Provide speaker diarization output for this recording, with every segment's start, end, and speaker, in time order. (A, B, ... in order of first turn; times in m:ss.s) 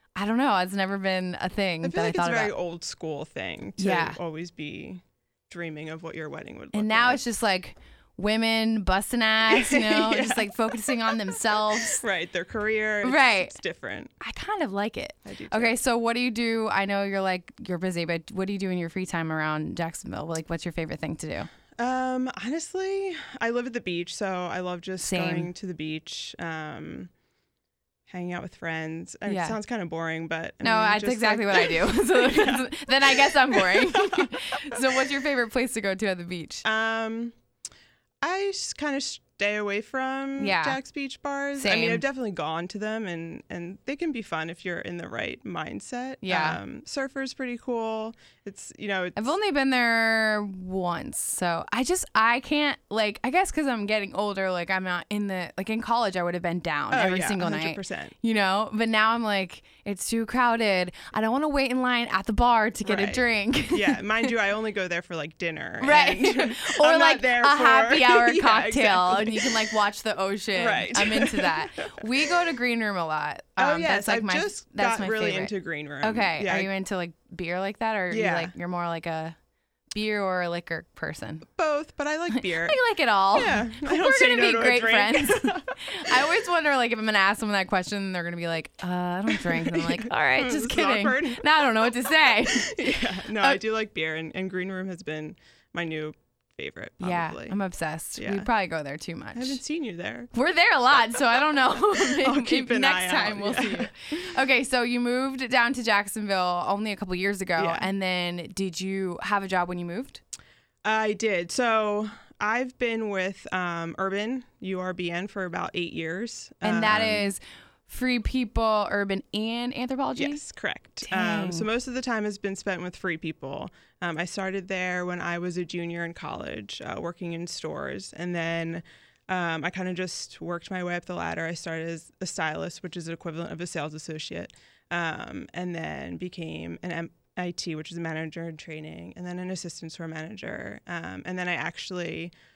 0:00.2-0:02.5 A
0:01.8-0:07.2 B
0:03.8-0:04.2 A
0:06.7-0:12.0 A
0:09.4-0:14.1 B
0:13.0-0:13.6 A
0:14.2-0:21.5 A
0:15.2-0:15.8 B
0:21.8-0:27.1 B
0:25.0-0:25.5 A
0:28.1-0:35.0 B
0:29.2-0:29.6 A
0:30.6-0:36.6 A
0:36.6-0:37.3 B
0:38.2-0:49.3 B
0:40.4-0:40.8 A
0:41.6-0:42.0 A
0:46.2-0:46.6 A
0:49.2-1:04.0 A
0:56.9-0:58.2 B
1:02.8-1:09.7 B
1:05.8-1:19.4 A
1:10.6-1:12.3 B
1:13.6-1:16.7 B
1:18.1-1:18.5 B
1:19.9-1:21.5 A
1:21.5-1:22.8 B
1:22.3-1:33.6 A
1:23.3-1:26.3 B
1:29.3-1:37.6 B
1:37.0-1:39.6 A
1:38.2-1:38.5 B
1:39.4-1:40.3 B
1:40.3-1:50.2 A
1:41.8-1:44.0 B
1:47.6-1:47.9 B
1:50.8-1:57.3 B
1:56.6-2:00.4 A
2:00.2-2:22.3 B
2:01.0-2:01.7 A